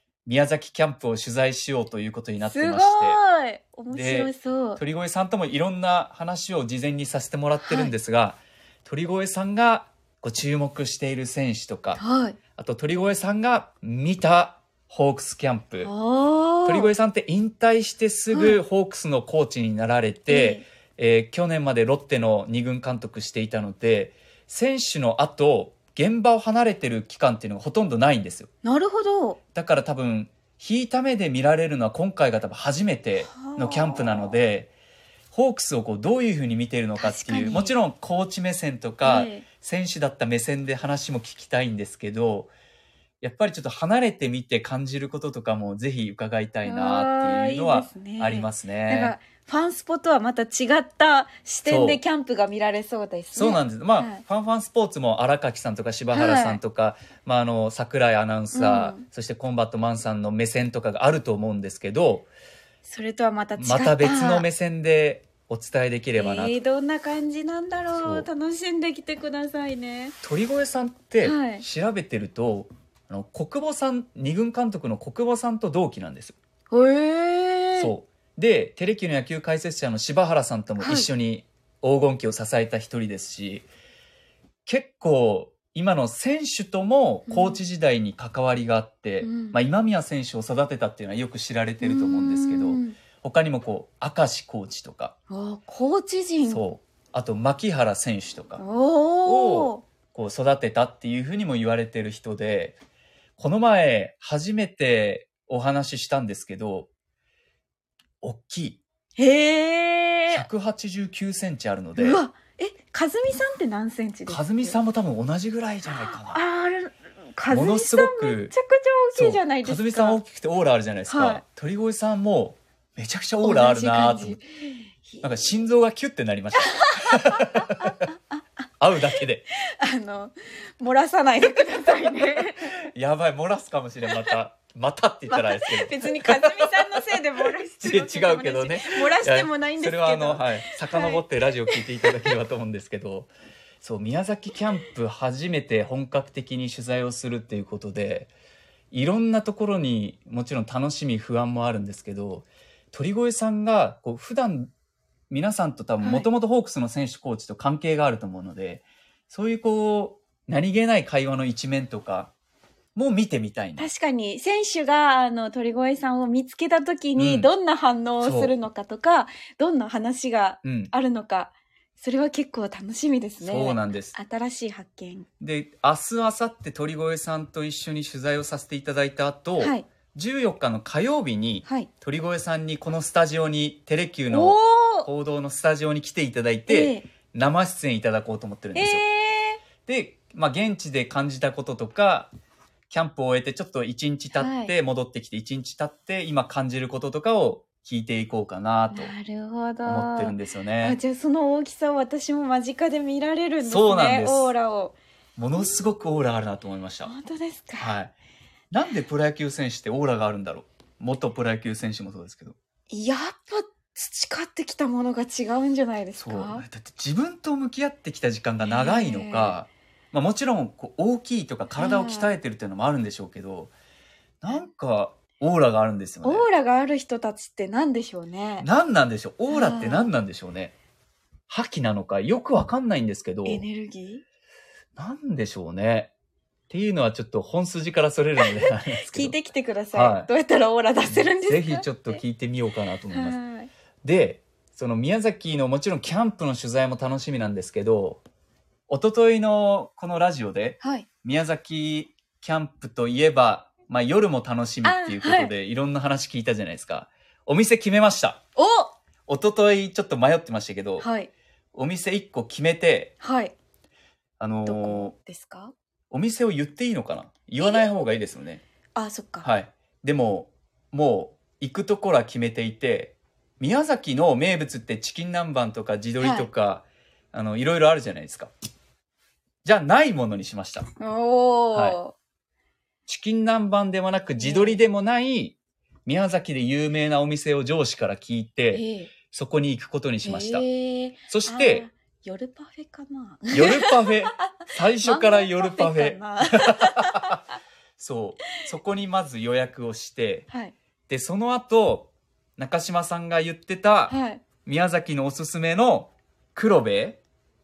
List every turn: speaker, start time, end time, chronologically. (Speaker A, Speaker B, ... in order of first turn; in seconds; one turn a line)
Speaker A: 0.3-3.2
Speaker B: 2.4-4.8
Speaker A: 3.9-12.0
Speaker B: 7.6-7.9
Speaker B: 12.0-12.4
Speaker A: 12.6-15.9
Speaker B: 15.8-16.9
Speaker A: 16.6-28.5
Speaker B: 18.3-18.6
Speaker B: 20.3-20.7
Speaker B: 28.6-29.4
Speaker A: 29.6-34.7
Speaker B: 33.3-34.4
Speaker A: 35.3-42.5
Speaker B: 37.0-37.7
Speaker B: 39.0-39.5
Speaker A: 43.2-49.1
Speaker B: 46.6-54.2
Speaker A: 51.6-52.0
Speaker A: 53.3-62.3
Speaker B: 56.1-56.6
Speaker B: 58.5-59.0
Speaker B: 62.9-64.5
Speaker A: 63.6-66.6
Speaker B: 66.2-70.2
Speaker A: 68.0-68.3
Speaker A: 70.2-76.4
Speaker B: 71.2-71.7
Speaker B: 76.7-77.9
Speaker A: 77.8-83.7
Speaker B: 80.8-81.1
Speaker A: 84.7-95.1
Speaker B: 87.3-87.6
Speaker B: 89.2-89.6
Speaker B: 91.8-93.0
Speaker B: 95.3-96.7
Speaker A: 96.5-98.6
Speaker B: 98.6-99.8
Speaker A: 99.3-102.8
Speaker A: 103.4-106.9
Speaker A: 108.2-108.8
Speaker B: 109.2-110.5
Speaker A: 110.3-112.2
Speaker B: 112.0-114.8
Speaker A: 114.3-116.4
Speaker B: 115.9-120.2
Speaker A: 117.5-118.5
Speaker A: 119.1-124.4
Speaker B: 121.1-121.4
Speaker B: 123.4-125.3
Speaker A: 125.2-127.9
Speaker B: 126.7-128.4
Speaker A: 128.8-129.4
Speaker B: 129.7-132.9
Speaker A: 132.8-148.3
Speaker B: 134.1-134.3
Speaker B: 135.3-142.3
Speaker A: 148.9-154.7
Speaker A: 155.3-162.3
Speaker B: 156.0-156.3
Speaker A: 162.9-163.9
Speaker B: 163.8-175.3
Speaker A: 167.2-167.5
Speaker A: 168.2-168.5
Speaker A: 170.6-170.9
Speaker A: 173.4-174.2
Speaker A: 175.4-189.0
Speaker B: 179.6-179.9
Speaker B: 184.3-185.1
Speaker B: 186.7-187.1
Speaker B: 188.7-189.6
Speaker A: 189.9-192.3
Speaker A: 192.9-199.1
Speaker B: 194.3-194.7
Speaker B: 198.9-205.0
Speaker A: 199.8-201.0
Speaker A: 203.6-204.5
Speaker A: 205.4-207.1
Speaker B: 205.6-206.1
Speaker B: 207.1-207.9
Speaker A: 207.8-208.1
Speaker A: 208.7-212.6
Speaker B: 212.9-216.6
Speaker A: 216.2-223.7
Speaker B: 218.6-219.6
Speaker B: 221.7-222.3
Speaker A: 224.4-226.5
Speaker B: 226.2-228.7
Speaker A: 228.6-230.7
Speaker B: 229.5-230.1
Speaker A: 231.5-233.6
Speaker B: 233.4-234.2
Speaker A: 235.0-236.1
Speaker A: 236.7-239.3
Speaker B: 238.4-242.2
Speaker A: 239.9-240.3
Speaker A: 241.1-243.4
Speaker B: 243.1-243.7
Speaker A: 244.0-248.2
Speaker A: 248.9-258.4
Speaker B: 250.8-251.1
Speaker B: 254.8-255.5
Speaker B: 258.6-259.0
Speaker A: 259.3-261.1
Speaker B: 261.0-261.3
Speaker A: 261.7-263.1
Speaker B: 263.2-263.5
Speaker A: 264.4-265.1
Speaker B: 264.6-265.7
Speaker A: 266.1-268.6
Speaker B: 267.6-268.1
Speaker B: 268.9-269.5
Speaker A: 269.4-278.5
Speaker B: 276.2-276.5
Speaker A: 279.6-280.9
Speaker B: 281.0-282.1
Speaker A: 281.7-282.0
Speaker A: 283.1-290.7
Speaker B: 284.4-284.8
Speaker B: 288.7-289.1
Speaker B: 290.2-297.4
Speaker A: 291.3-291.9
Speaker A: 293.5-297.4
Speaker A: 298.0-300.5
Speaker B: 300.5-300.7
Speaker A: 301.1-307.2
Speaker B: 304.1-304.4